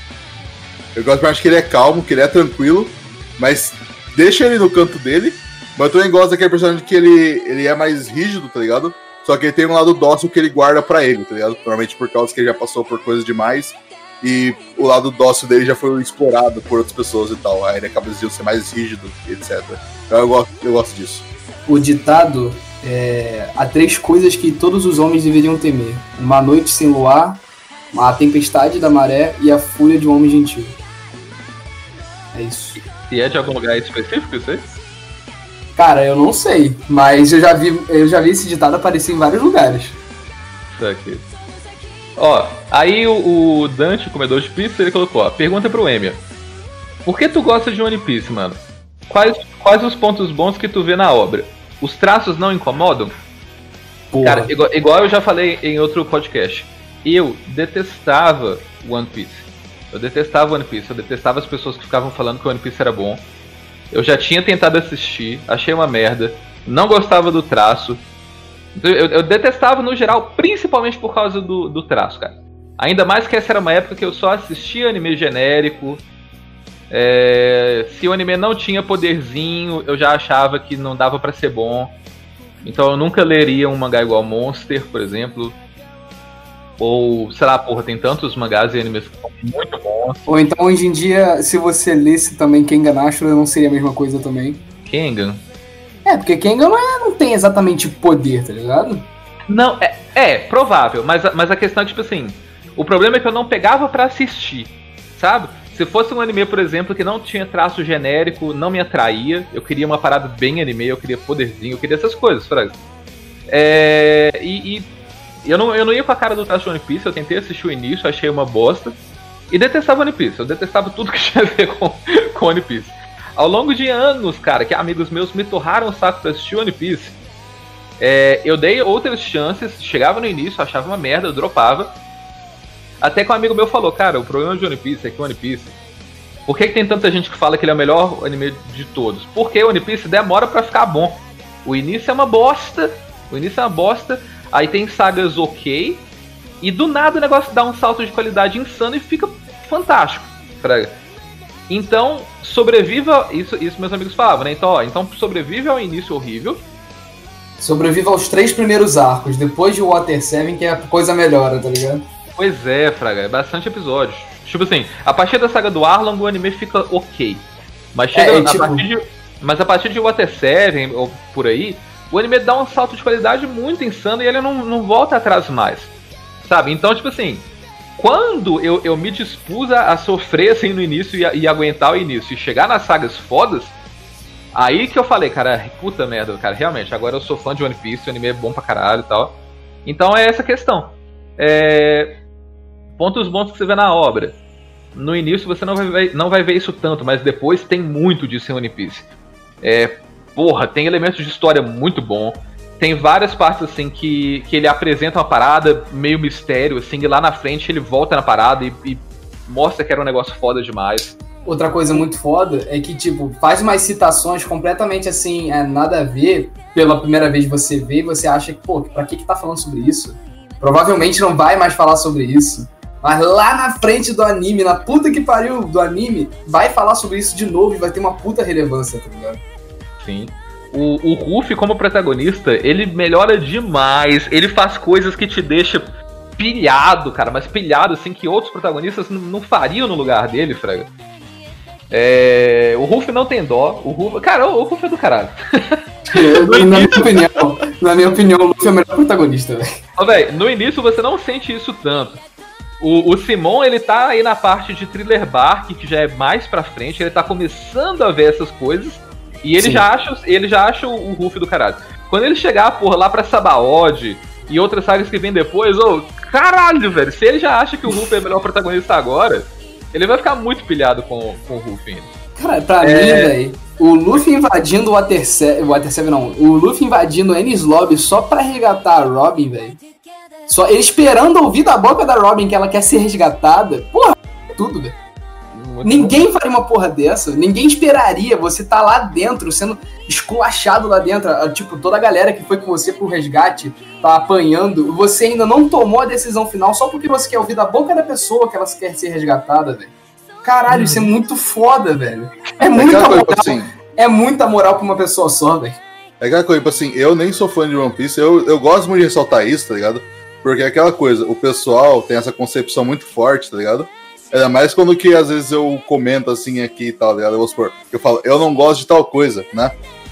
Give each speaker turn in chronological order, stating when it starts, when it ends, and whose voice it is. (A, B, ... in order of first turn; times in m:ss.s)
0:00.9-0:21.2 A
0:21.7-0:27.4 B
0:27.9-0:30.8 B
0:32.3-0:32.8 B
0:33.1-0:34.6 C
0:35.8-0:40.0 B
0:40.7-0:41.2 C
0:42.2-0:46.2 C
0:47.0-0:53.1 C
0:54.1-0:54.5 B
0:54.2-1:03.2 C
1:03.9-1:08.0 C
1:08.7-1:16.0 C
1:16.9-1:22.0 C
1:22.6-1:25.6 C
1:26.8-1:30.2 C
1:30.2-1:34.6 B
1:34.8-1:35.4 C
1:36.0-1:39.1 B
1:39.5-1:52.8 C
1:53.5-1:54.9 C
1:55.4-1:59.0 C
1:59.5-2:07.2 C
2:08.0-2:12.0 C
2:13.0-2:15.7 C
2:16.4-2:26.1 C
2:26.6-2:31.0 C
2:31.7-2:36.6 C
2:37.6-2:42.0 B
2:42.4-3:03.7 C
2:48.1-2:48.8 B
3:04.5-3:12.2 C
3:13.0-3:14.4 C
3:14.9-3:19.1 C
3:19.6-3:31.2 C
3:31.4-3:49.4 B
3:50.0-4:00.9 C
4:01.9-4:07.1 C
4:06.1-4:09.7 B
4:10.0-4:12.2 C
4:12.8-4:32.1 C
4:19.6-4:19.8 B
4:32.4-4:39.8 B
4:32.8-4:33.3 C
4:40.5-4:45.0 B
4:45.5-4:46.1 C
4:45.8-5:05.8 B
5:00.7-5:01.1 C
5:02.7-5:03.7 A
5:06.2-5:19.7 A